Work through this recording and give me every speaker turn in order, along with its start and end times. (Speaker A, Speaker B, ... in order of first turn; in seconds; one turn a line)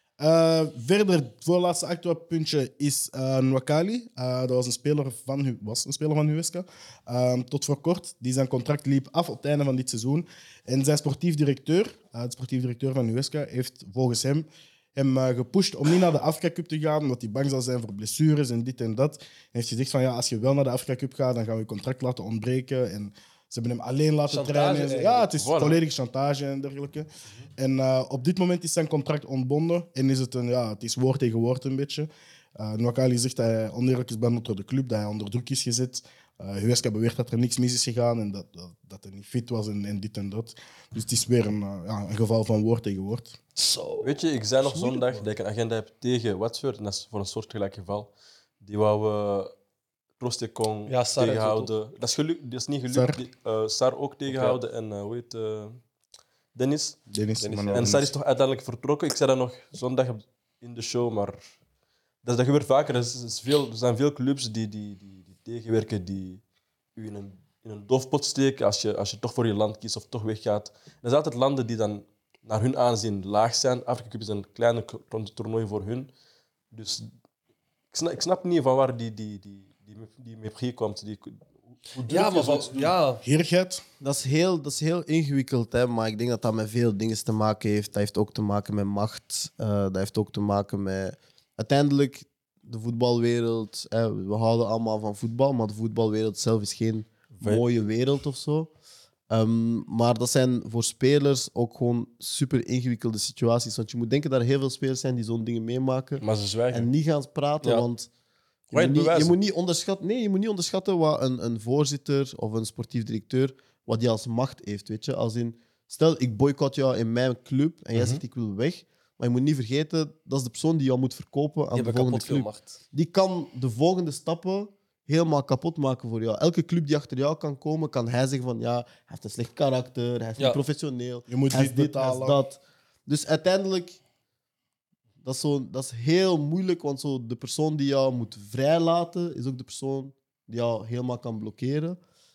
Speaker A: 0.2-43.4
Speaker B: 24.3-25.3
Speaker C: 25.4-25.8
Speaker B: 43.5-45.3
Speaker C: 44.0-49.5
Speaker C: 50.2-55.8
Speaker B: 50.9-51.7
Speaker A: 52.9-53.2
Speaker B: 54.3-54.6
Speaker C: 56.5-57.0
Speaker A: 57.1-58.1
Speaker B: 57.4-58.0
Speaker C: 57.7-61.4
Speaker C: 62.2-66.4
Speaker C: 66.9-76.1
Speaker C: 76.7-77.1
Speaker C: 77.9-83.0
Speaker B: 82.1-83.2
Speaker A: 83.2-83.8
Speaker D: 84.0-98.7
Speaker C: 97.4-97.6
Speaker D: 99.3-108.1
Speaker C: 106.2-106.9
Speaker C: 108.7-109.3
Speaker D: 108.7-134.0
Speaker C: 117.9-118.2
Speaker B: 121.7-122.8
Speaker A: 131.3-132.4
Speaker D: 135.2-142.0